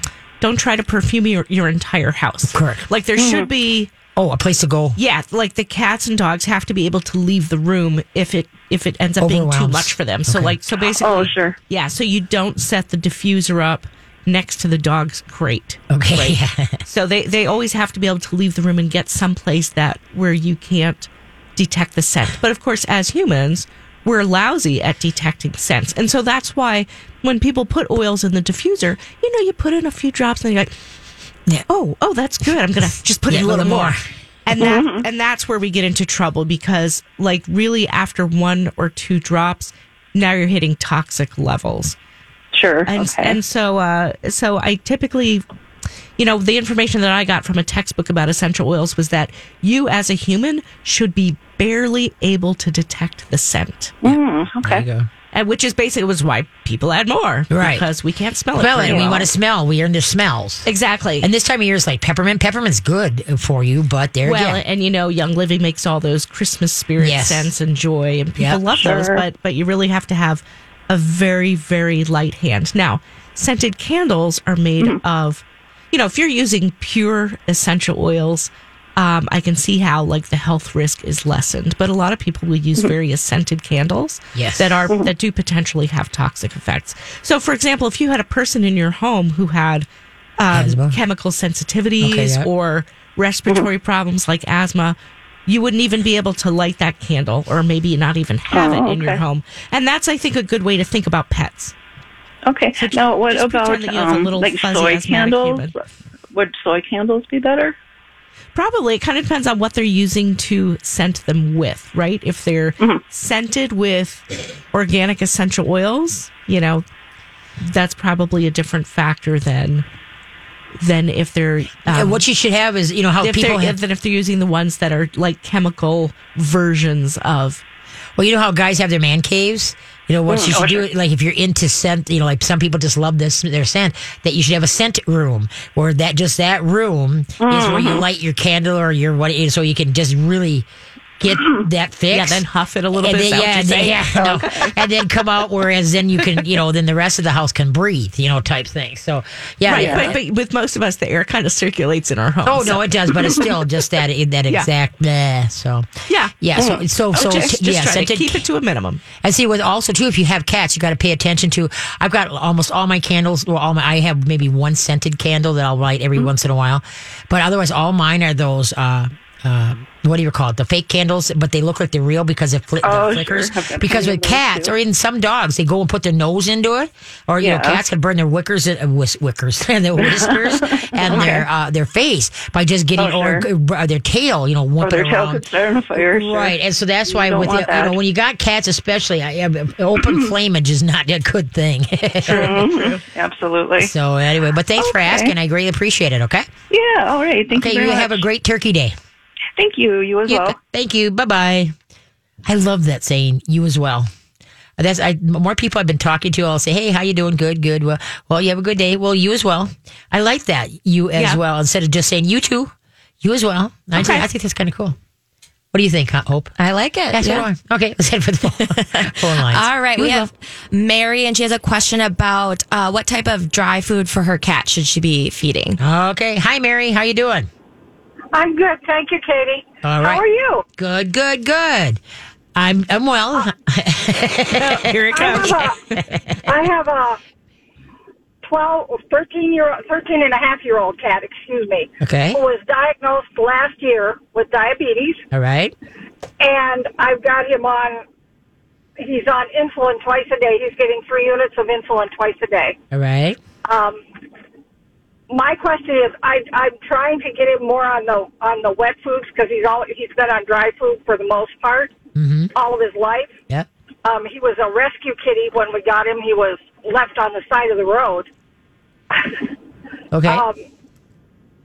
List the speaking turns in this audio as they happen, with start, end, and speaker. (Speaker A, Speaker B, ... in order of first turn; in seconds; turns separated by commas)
Speaker A: 0.4-3.9, Speaker B: 2.5-2.9, Speaker C: 3.2-3.5, Speaker B: 4.2-5.0, Speaker A: 5.0-30.8, Speaker B: 9.2-10.6, Speaker C: 11.0-11.6, Speaker B: 15.9-16.8, Speaker A: 31.7-42.0, Speaker B: 33.3-34.0, Speaker C: 34.6-35.1, Speaker C: 42.5-43.4, Speaker A: 42.9-45.4, Speaker A: 46.2-54.0, Speaker C: 54.0-54.9, Speaker B: 54.0-55.1, Speaker A: 55.3-59.3, Speaker B: 57.5-57.9, Speaker B: 58.6-60.7, Speaker C: 58.8-59.2, Speaker A: 60.6-61.3, Speaker B: 61.2-64.6, Speaker A: 64.2-89.9, Speaker B: 67.0-67.5, Speaker C: 68.8-69.2, Speaker B: 84.3-84.8, Speaker A: 90.4-101.8, Speaker B: 90.5-91.0, Speaker B: 92.0-92.5, Speaker C: 98.5-99.2, Speaker C: 102.5-107.8, Speaker A: 102.8-105.7, Speaker A: 108.5-116.8, Speaker A: 117.6-119.8, Speaker A: 120.8-122.2, Speaker B: 121.9-123.8, Speaker A: 123.2-127.6, Speaker B: 128.2-140.7, Speaker C: 130.3-130.9, Speaker C: 137.4-138.1, Speaker B: 141.2-142.4, Speaker A: 142.1-144.7, Speaker B: 143.0-150.2, Speaker A: 149.7-153.4, Speaker C: 149.7-150.1, Speaker B: 152.4-155.9, Speaker A: 156.1-159.0, Speaker B: 156.4-158.4, Speaker B: 159.2-192.7, Speaker C: 172.8-174.7, Speaker C: 177.4-177.8, Speaker C: 180.0-181.5, Speaker C: 183.0-183.5, Speaker C: 184.8-188.0, Speaker C: 190.0-190.3, Speaker A: 192.3-193.0, Speaker C: 192.3-193.9, Speaker B: 193.8-196.5, Speaker C: 194.8-195.3, Speaker C: 196.7-198.2, Speaker B: 197.5-199.0, Speaker C: 199.6-200.6, Speaker B: 200.3-201.8, Speaker B: 202.5-204.1, Speaker B: 204.8-215.0, Speaker A: 211.2-211.4, Speaker A: 213.9-214.3, Speaker B: 215.7-216.6, Speaker D: 216.6-217.5, Speaker B: 217.1-220.3, Speaker D: 218.6-225.8, Speaker B: 225.8-227.5, Speaker E: 228.3-230.7, Speaker B: 229.8-230.2, Speaker B: 230.8-232.0, Speaker B: 232.6-235.3, Speaker A: 234.6-236.0, Speaker E: 235.1-235.8, Speaker B: 236.1-236.4, Speaker E: 236.4-237.2, Speaker E: 238.4-245.2, Speaker B: 242.0-242.4, Speaker B: 245.3-245.8, Speaker E: 246.4-248.0, Speaker E: 249.0-252.8, Speaker B: 252.9-253.4, Speaker E: 253.7-254.0, Speaker E: 255.3-261.9, Speaker B: 262.2-262.5, Speaker E: 262.6-263.3, Speaker E: 264.1-268.3, Speaker E: 269.1-269.4, Speaker B: 270.1-270.4, Speaker E: 270.2-270.6